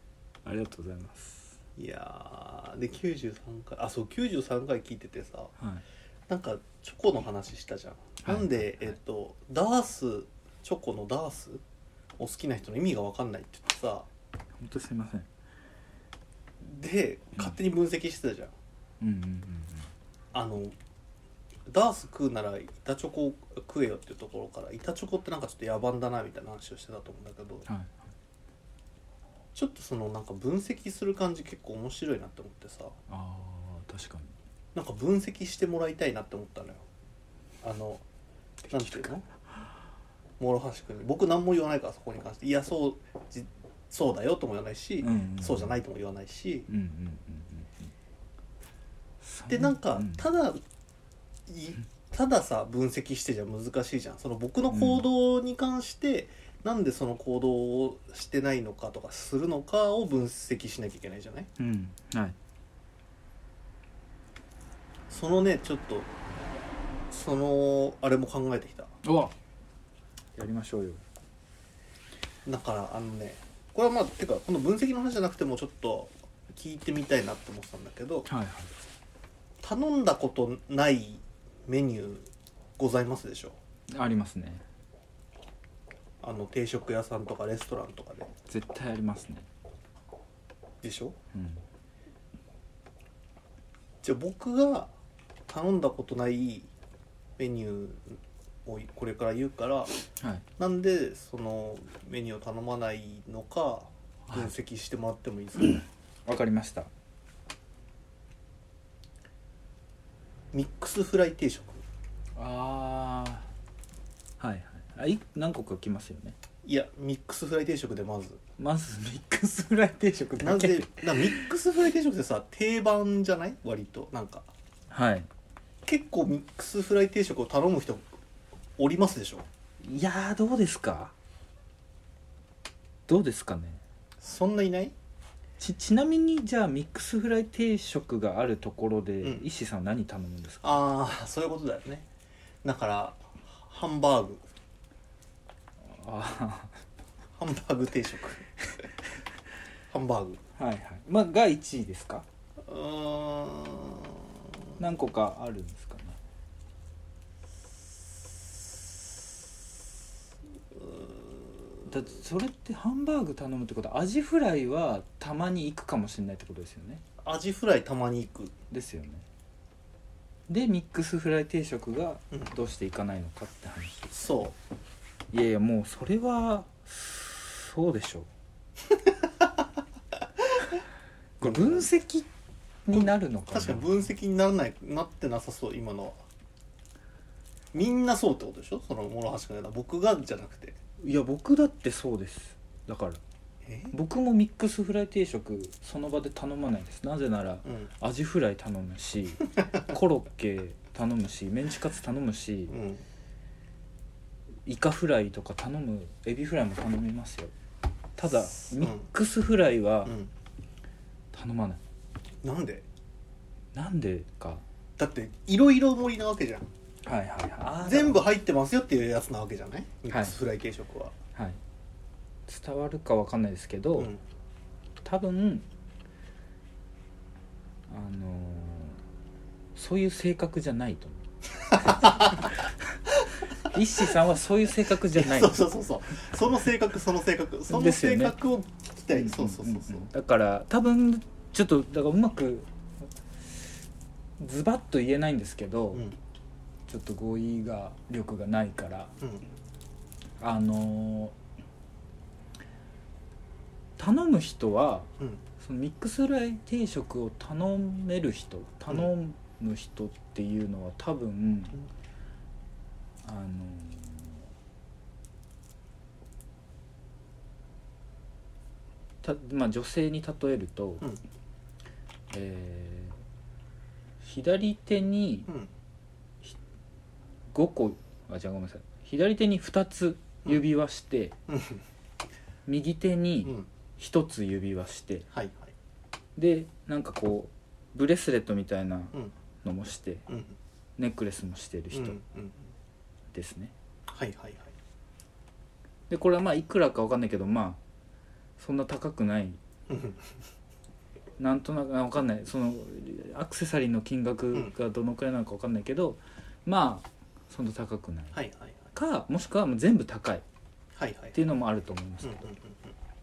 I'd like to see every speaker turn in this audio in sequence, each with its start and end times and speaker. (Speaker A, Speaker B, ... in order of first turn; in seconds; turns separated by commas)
Speaker A: 0.5-1.6, Speaker B: 1.8-5.5, Speaker A: 5.6-5.8, Speaker B: 6.3-11.6, Speaker A: 8.2-9.0, Speaker B: 12.2-14.1, Speaker A: 14.6-15.3, Speaker B: 16.6-18.5, Speaker A: 19.0-19.9, Speaker B: 20.3-20.8, Speaker B: 21.7-27.7, Speaker A: 27.7-28.1, Speaker B: 29.6-33.0, Speaker A: 33.1-34.4, Speaker B: 34.7-36.8, Speaker B: 37.6-38.0, Speaker A: 38.6-39.2, Speaker B: 38.7-39.2, Speaker B: 40.4-46.7, Speaker A: 45.0-45.8, Speaker A: 46.7-47.9, Speaker A: 49.2-50.3, Speaker B: 49.5-50.6, Speaker B: 51.5-61.5, Speaker A: 54.7-55.1, Speaker A: 61.6-62.4, Speaker B: 65.1-66.1, Speaker B: 67.1-68.9, Speaker A: 69.0-69.3, Speaker A: 70.3-71.0, Speaker B: 72.5-78.3, Speaker A: 78.3-78.8, Speaker B: 79.6-83.6, Speaker A: 83.9-84.7, Speaker B: 86.2-88.3, Speaker A: 88.5-89.5, Speaker B: 90.8-91.2, Speaker A: 91.3-91.6, Speaker B: 94.0-94.9, Speaker B: 95.5-96.7, Speaker B: 97.4-100.0, Speaker A: 100.2-100.5, Speaker B: 100.6-105.8, Speaker A: 104.3-104.5, Speaker A: 106.3-106.9, Speaker B: 110.5-111.8, Speaker A: 112.4-113.5, Speaker A: 114.4-116.4, Speaker B: 116.6-118.4, Speaker A: 118.6-121.5, Speaker B: 120.4-124.5, Speaker A: 124.9-125.3, Speaker B: 125.9-128.2, Speaker B: 128.8-129.5, Speaker A: 129.8-131.1, Speaker A: 133.1-133.8, Speaker B: 134.2-134.9, Speaker A: 135.6-140.8, Speaker B: 140.6-142.1, Speaker B: 142.6-144.5, Speaker A: 145.8-146.8, Speaker B: 147.4-148.5, Speaker B: 149.9-150.4, Speaker A: 150.6-152.3, Speaker B: 152.6-154.3, Speaker A: 154.8-156.2, Speaker B: 160.7-161.8, Speaker A: 161.9-167.0, Speaker B: 167.2-168.5, Speaker A: 168.7-169.3, Speaker A: 170.5-174.1, Speaker B: 174.1-174.6, Speaker A: 175.3-178.3, Speaker B: 179.1-179.5, Speaker A: 181.4-182.3, Speaker B: 181.4-181.9, Speaker A: 182.8-183.9, Speaker B: 182.9-186.2, Speaker B: 187.7-190.8, Speaker A: 191.0-193.2, Speaker B: 193.6-193.9, Speaker A: 193.9-202.7, Speaker B: 197.7-197.9, Speaker B: 202.7-203.0, Speaker A: 204.6-207.5, Speaker A: 208.2-210.1, Speaker B: 208.6-209.1, Speaker B: 210.1-210.3, Speaker A: 211.3-211.8, Speaker B: 212.4-212.8, Speaker A: 213.7-214.7, Speaker B: 215.0-216.7, Speaker A: 217.0-218.2, Speaker B: 217.8-221.2, Speaker A: 220.1-220.4, Speaker A: 221.3-221.6, Speaker A: 222.5-224.1, Speaker A: 225.0-225.7, Speaker A: 227.9-229.0, Speaker A: 229.8-233.0, Speaker B: 231.7-232.5, Speaker A: 233.6-235.7, Speaker B: 235.1-240.1, Speaker A: 237.7-238.4, Speaker A: 239.1-242.7, Speaker A: 244.4-246.1, Speaker A: 246.9-249.1, Speaker A: 250.4-251.3, Speaker A: 254.0-261.8, Speaker A: 263.2-264.5, Speaker A: 269.2-271.1, Speaker A: 272.3-273.2, Speaker A: 274.2-275.5, Speaker A: 277.5-281.4, Speaker B: 281.5-281.8, Speaker A: 282.7-285.3, Speaker B: 283.4-283.7, Speaker B: 285.3-285.7, Speaker A: 286.4-290.2, Speaker B: 290.3-290.6, Speaker A: 291.0-292.2, Speaker B: 291.9-292.6, Speaker A: 293.3-293.7, Speaker B: 294.1-294.7, Speaker A: 296.1-297.8, Speaker A: 298.6-299.6, Speaker B: 299.9-300.3, Speaker A: 301.4-308.4, Speaker B: 308.3-308.9, Speaker A: 308.9-310.4, Speaker B: 311.0-311.4, Speaker A: 311.3-312.4, Speaker B: 312.2-312.9